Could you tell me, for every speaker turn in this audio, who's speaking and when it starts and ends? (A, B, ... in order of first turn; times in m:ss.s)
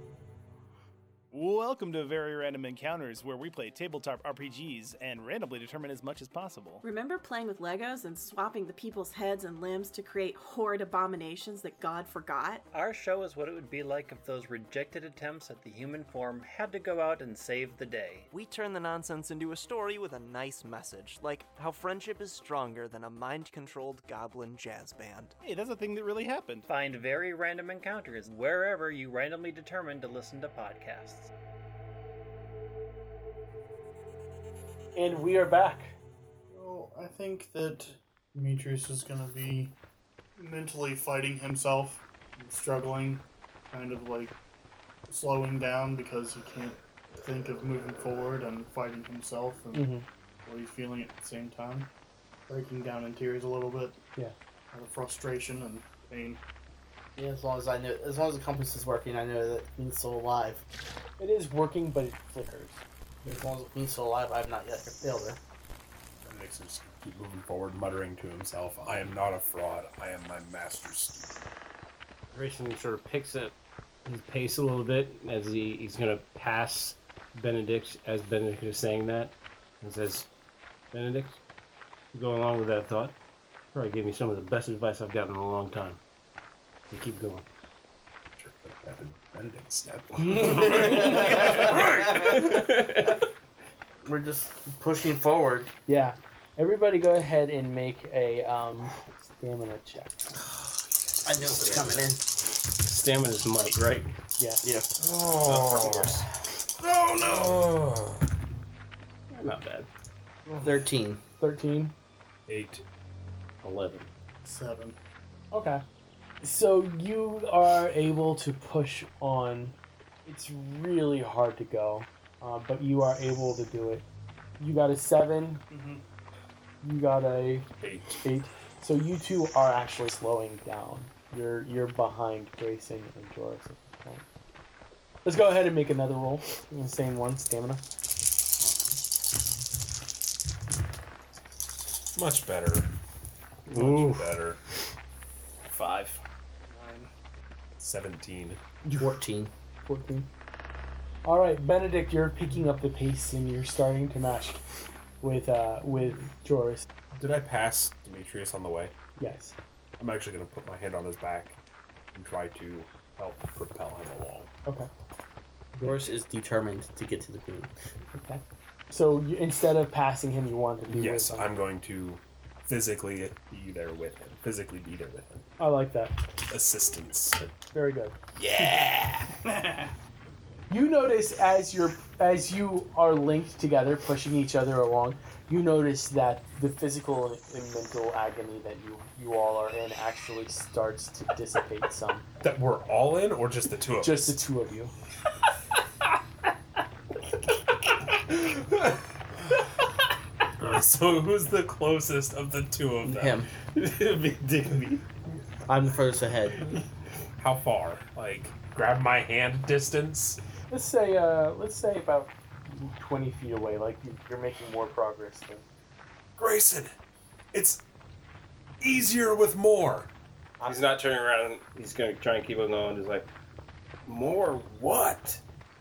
0:01.3-0:06.8 A
0:06.8-0:12.6 B
0:12.7-0:18.3 C
0:18.3-0:25.3 D
0:25.4-0:26.7 A
0:26.7-0:31.3 C
0:34.9-0:35.9 E
0:36.5-0:39.7 F
0:40.4-0:44.3 F
0:45.1-0:51.9 F
0:49.7-0:50.0 E
0:52.5-0:54.0 F
0:54.7-0:56.4 F
0:57.2-1:00.6 G
1:01.2-1:02.8 E
1:03.2-1:05.4 G
1:06.2-1:11.4 H
1:12.3-1:13.5 I
1:14.0-1:20.3 I
1:20.9-1:21.4 I
1:22.1-1:23.1 I
1:23.7-1:26.0 I
1:26.9-1:27.4 I
1:28.4-1:32.7 H
1:30.4-1:32.8 G
1:32.2-1:33.1 I
1:34.0-1:35.7 G
1:35.9-1:40.3 E
1:41.2-1:42.2 G
1:41.4-1:41.9 H
1:42.4-1:44.1 I
1:44.4-1:44.6 E
1:44.6-1:44.9 G
1:45.0-1:46.3 H
1:46.8-1:48.2 H
1:49.3-1:49.9 I
1:50.6-1:51.2 G
1:51.4-1:51.9 E
1:52.5-1:52.8 H
1:53.6-1:54.1 I
1:54.4-1:55.0 F
1:55.5-1:55.8 E
1:56.4-2:04.0 E
2:04.6-2:05.6 E
2:05.7-2:06.0 F
2:06.8-2:07.7 E
2:07.8-2:08.2 H
2:08.2-2:14.2 E
2:15.2-2:17.8 E
2:22.1-2:22.9 H
2:23.7-2:24.6 H
2:23.7-2:24.3 I
2:25.7-2:26.2 I
2:26.7-2:27.1 F
2:27.8-2:28.6 H
2:28.8-2:29.5 G
2:29.9-2:30.3 E
2:31.2-2:34.6 E
2:35.2-2:36.8 E
2:37.1-2:38.9 H
2:39.2-2:39.5 E
2:40.0-2:41.6 H
2:42.1-2:44.5 H
2:45.8-2:47.7 G
2:48.1-2:51.5 E
2:50.9-2:55.4 H
2:55.6-2:56.2 E
2:56.5-2:57.4 H
2:57.7-2:58.1 E
2:58.4-2:59.3 I
2:59.4-2:59.9 F
3:00.7-3:12.2 E
3:12.4-3:14.3 H
3:14.0-3:14.9 E
3:20.6-3:23.4 H
3:23.0-3:23.5 G
3:23.8-3:24.9 I
3:25.7-3:26.7 G
3:27.4-3:30.4 H
3:30.7-3:35.6 E
3:36.4-3:36.9 H
3:37.5-3:37.8 H
3:38.8-3:40.1 H
3:40.6-3:43.3 I
3:44.0-3:45.4 I